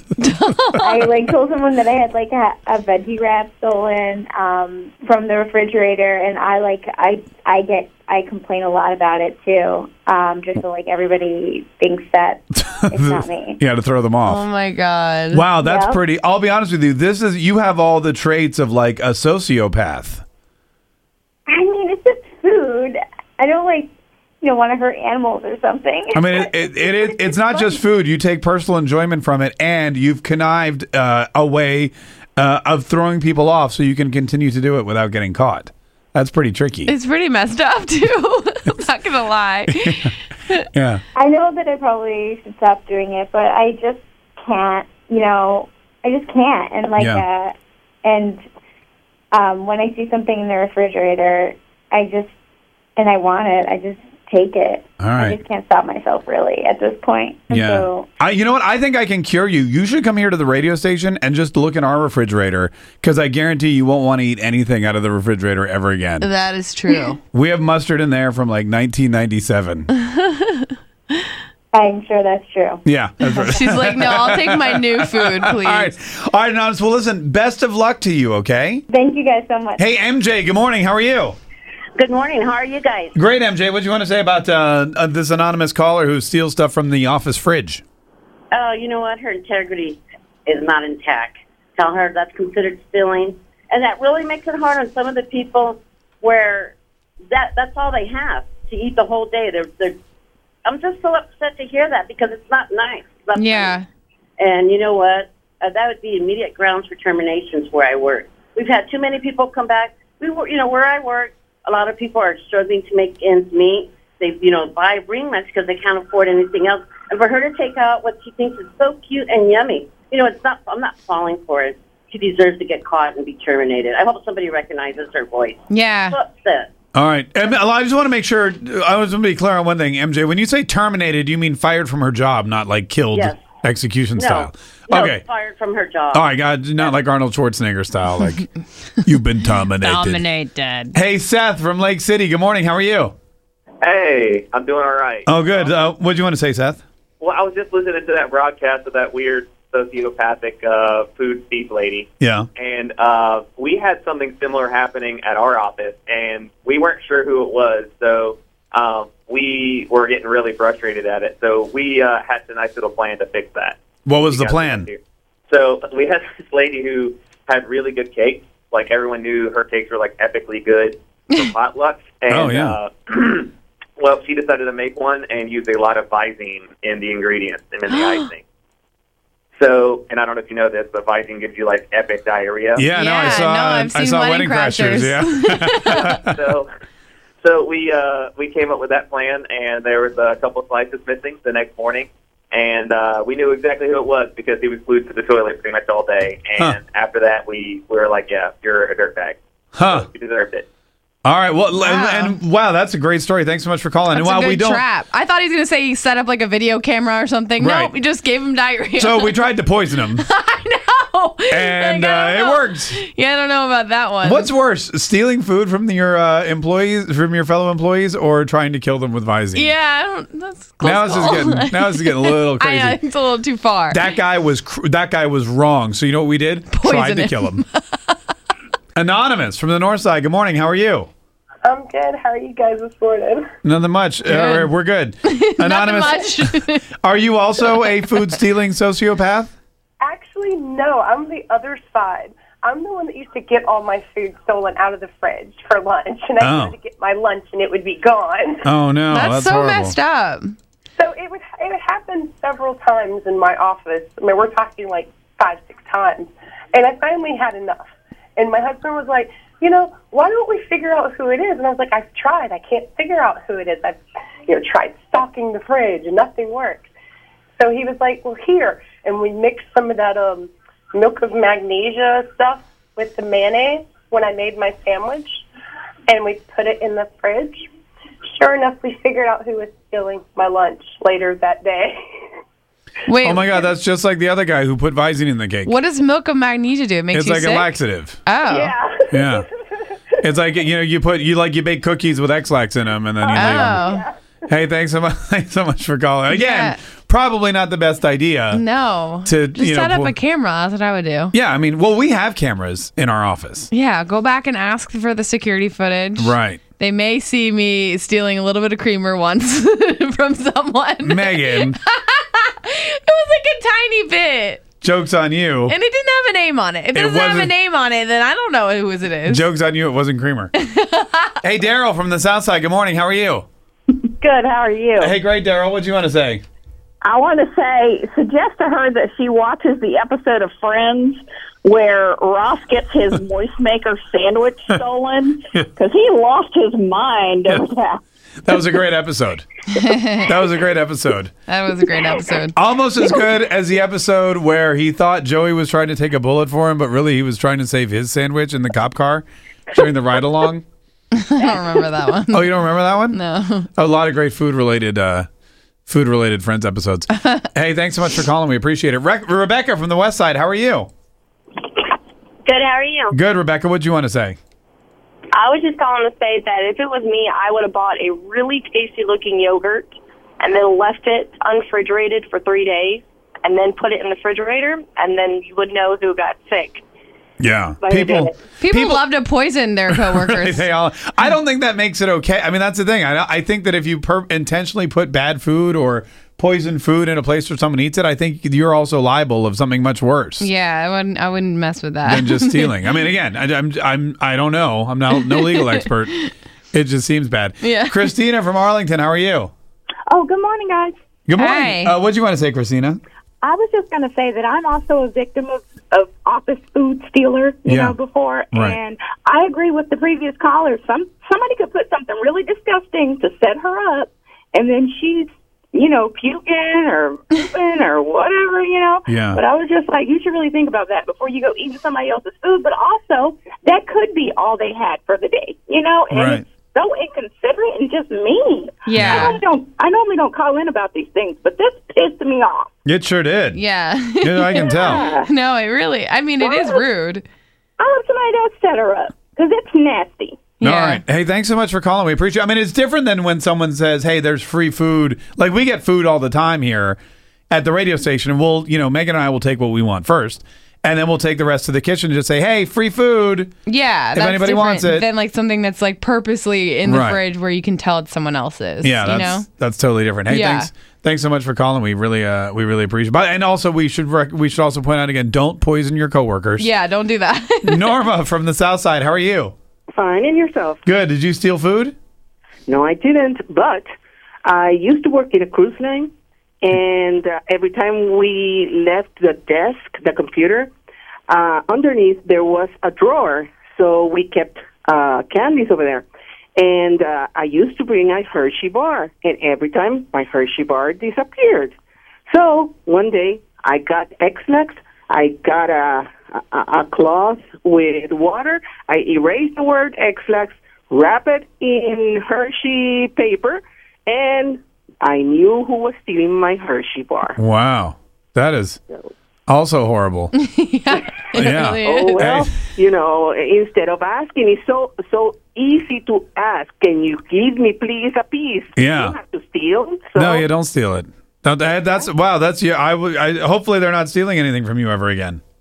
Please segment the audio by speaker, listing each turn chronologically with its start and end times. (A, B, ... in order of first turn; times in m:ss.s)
0:00.2-0:01.1 A
0:00.8-0:13.6 B
0:12.5-0:14.4 C
0:14.3-0:15.5 A
0:15.3-0:20.2 C
0:15.6-0:16.0 B
0:21.5-0:23.9 B
0:24.4-0:26.9 B
0:26.1-0:36.9 C
0:36.9-0:40.7 A
0:39.7-0:40.1 C
0:40.7-0:41.0 C
0:41.2-0:47.5 B
0:47.0-0:47.2 C
0:48.0-0:48.4 B
0:49.3-0:52.3 B
0:53.0-0:58.1 B
0:55.0-0:55.4 C
0:57.5-1:06.3 C
1:06.2-1:07.2 A
1:07.3-1:09.9 C
1:10.0-1:10.6 A
1:11.7-1:12.8 B
1:12.8-1:18.8 C
1:13.2-1:16.0 A
1:18.9-1:19.8 B
1:19.8-1:21.4 C
1:22.0-1:23.1 D
1:23.1-1:27.8 C
1:28.5-1:36.8 D
1:37.3-1:40.0 D
1:40.6-1:43.8 D
1:43.3-1:43.9 A
1:44.4-2:06.7 D
2:05.7-2:06.2 A
2:06.9-2:15.2 C
2:13.1-2:13.4 D
2:14.2-2:16.3 D
2:16.1-2:18.5 C
2:19.0-2:20.2 C
2:19.8-2:21.0 A
2:20.9-2:23.1 C
2:23.8-2:25.9 E
2:25.3-2:26.8 C
2:27.2-2:58.4 E
2:32.2-2:32.5 C
2:44.0-2:44.9 C
2:52.3-2:52.8 C
2:57.9-2:58.3 A
2:59.6-3:02.9 E
3:02.8-3:06.2 C
3:02.9-3:06.0 A
3:05.9-3:06.7 E
3:07.4-3:20.7 E
3:19.8-3:20.1 C
3:21.2-3:24.8 C
3:21.7-3:22.4 A
3:24.1-3:34.6 A
3:27.6-3:27.9 C
3:29.0-3:30.3 C
3:31.5-3:33.0 C
3:34.2-3:39.7 C
3:39.5-3:44.2 A
3:40.8-3:43.0 C
3:43.9-3:47.6 C
3:46.7-3:48.2 A
3:49.0-3:51.1 C
3:51.6-3:53.5 F
3:53.6-3:59.5 C
3:54.3-3:54.7 A
3:55.2-3:56.9 A
4:00.0-4:08.7 F
4:06.4-4:06.7 C
4:08.6-4:10.0 C
4:09.1-4:10.6 A
4:11.0-4:26.9 F
4:27.6-4:35.4 F
4:36.1-4:37.6 F
4:38.3-4:42.0 F
4:43.1-4:43.5 A
4:43.2-4:45.8 C
4:45.6-4:48.7 A
4:47.1-4:48.2 C
4:48.5-4:49.4 F
4:49.1-4:49.4 C
4:50.2-4:53.8 C
4:53.2-4:54.1 F
4:53.3-4:54.0 A
4:54.5-4:58.6 C
4:56.3-4:56.8 A
4:58.5-5:01.4 A
4:59.2-5:00.2 C
5:01.3-5:03.7 C
5:03.7-5:14.7 A
5:06.2-5:06.6 C
5:11.0-5:11.8 C
5:14.8-5:15.8 C
5:15.7-5:19.5 A
5:16.9-5:17.5 C
5:19.3-5:20.5 C
5:20.5-5:21.4 A
5:21.4-5:23.5 C
5:24.3-5:24.9 G
5:25.0-5:26.4 C
5:27.0-5:38.0 G
5:38.4-5:39.5 C
5:39.8-5:40.3 A
5:40.2-5:41.3 C
5:41.5-5:42.6 A
5:42.6-5:50.6 C
5:51.1-5:53.7 A
5:52.3-5:53.2 C
5:53.8-5:55.3 C
5:55.9-6:00.9 C
6:02.4-6:03.1 H
6:03.1-6:04.4 C
6:05.3-6:16.8 H
6:17.4-6:19.0 C
6:17.8-6:18.4 H
6:18.6-6:20.7 A
6:19.9-6:30.5 C
6:30.4-6:33.1 A
6:32.0-6:36.2 C
6:35.1-6:36.3 A
6:36.7-6:39.5 C
6:37.6-6:38.1 A
6:40.1-6:41.0 I
6:41.3-6:43.0 C
6:41.4-6:41.9 A
6:43.4-7:12.7 I
6:47.7-6:48.0 C
6:48.5-6:48.8 C
6:59.1-6:59.4 C
7:06.1-7:06.4 C
7:08.8-7:09.4 A
7:09.0-7:09.3 C
7:12.8-7:13.6 C
7:13.5-7:17.2 A
7:14.2-7:15.1 C
7:14.6-7:15.3 I
7:16.4-7:16.9 I
7:17.8-7:20.5 I
7:20.6-7:21.0 A
7:20.6-7:27.0 C
7:27.5-7:33.5 C
7:33.6-7:39.5 A
7:34.1-7:35.1 C
7:36.8-7:37.2 C
7:38.8-7:46.7 C
7:40.3-7:40.7 A
7:46.6-7:48.0 A
7:47.7-7:49.5 C
7:49.9-7:50.8 J
7:50.8-7:52.0 C
7:52.7-7:53.9 J
7:54.5-7:56.1 J
7:56.6-8:00.7 J
8:01.3-8:06.0 J
8:06.6-8:11.7 J
8:12.3-8:27.4 J
8:27.4-8:28.8 C
8:29.5-8:30.3 C
8:30.3-8:32.4 A
8:31.3-8:32.5 C
8:31.8-8:40.5 J
8:38.8-8:39.2 C
8:40.2-8:45.4 C